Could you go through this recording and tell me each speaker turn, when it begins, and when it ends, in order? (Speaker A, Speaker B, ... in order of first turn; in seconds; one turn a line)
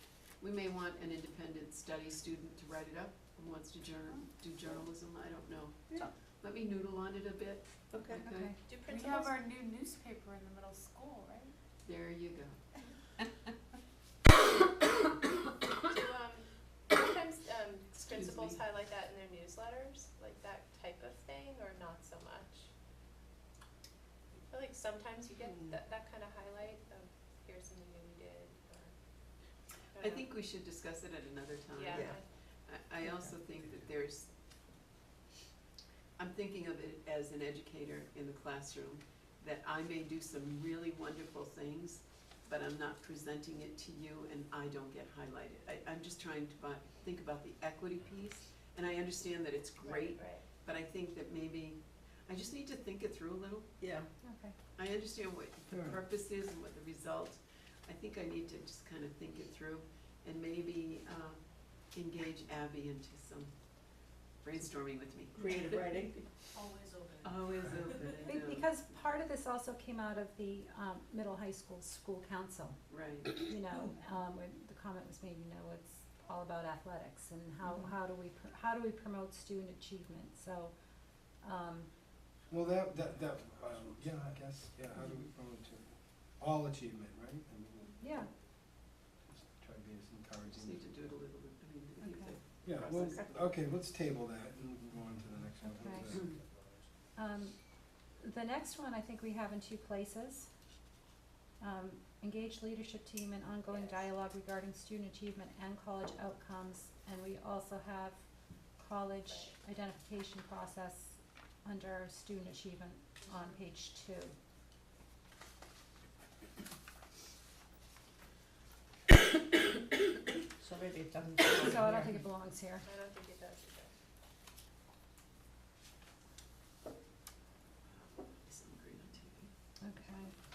Speaker A: 0.4-8.5
Speaker B: 7.9-8.3
Speaker C: 8.3-8.6
Speaker D: 8.6-9.3
Speaker E: 8.9-11.5
Speaker A: 11.8-12.6
Speaker D: 15.9-22.7
Speaker A: 17.9-18.6
Speaker D: 24.5-28.9
Speaker D: 29.9-30.3
Speaker A: 30.0-34.3
Speaker D: 31.7-32.2
Speaker B: 31.9-32.2
Speaker A: 36.2-53.7
Speaker D: 49.8-50.5
Speaker B: 53.8-54.1
Speaker C: 54.2-54.6
Speaker A: 54.8-63.5
Speaker F: 55.7-56.0
Speaker A: 64.4-65.8
Speaker B: 65.3-66.4
Speaker E: 66.5-68.0
Speaker A: 67.2-69.0
Speaker C: 68.2-80.7
Speaker A: 72.9-73.4
Speaker C: 81.4-81.9
Speaker F: 82.5-88.0
Speaker C: 88.0-88.3
Speaker F: 89.3-91.1
Speaker A: 90.5-93.5
Speaker C: 92.0-92.4
Speaker F: 92.6-96.4
Speaker B: 93.0-93.4
Speaker C: 95.7-96.2
Speaker C: 97.2-97.6
Speaker C: 98.2-100.5
Speaker C: 101.6-108.2
Speaker D: 103.7-104.1
Speaker C: 108.8-114.4
Speaker D: 109.3-109.6
Speaker D: 113.2-113.6
Speaker B: 120.6-122.2
Speaker C: 121.6-122.9
Speaker D: 122.8-123.9
Speaker A: 127.9-129.5
Speaker C: 129.8-130.3